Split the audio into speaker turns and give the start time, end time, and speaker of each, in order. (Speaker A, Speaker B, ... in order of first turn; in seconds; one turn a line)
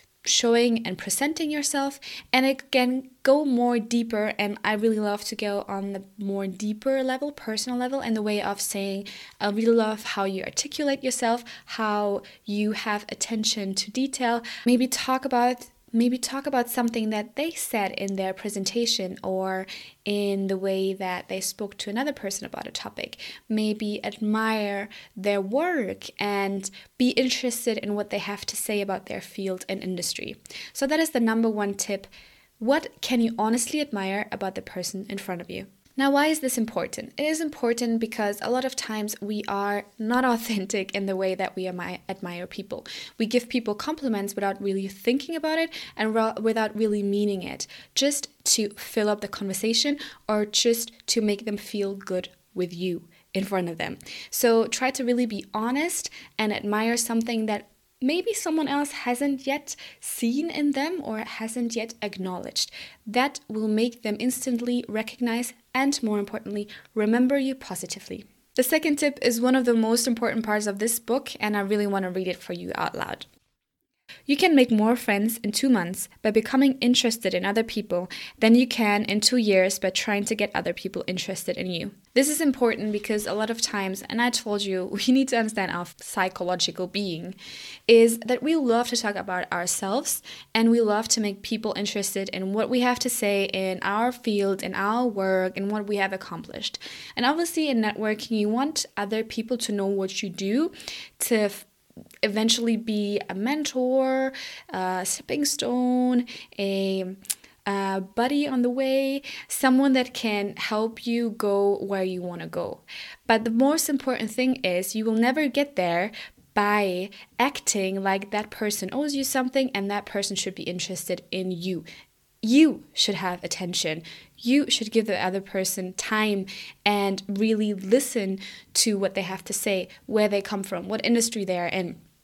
Speaker A: 0.2-73.3
Speaker A: 74.3-87.4
Speaker A: 87.9-101.7
Speaker A: 102.2-121.9
Speaker A: 122.4-132.0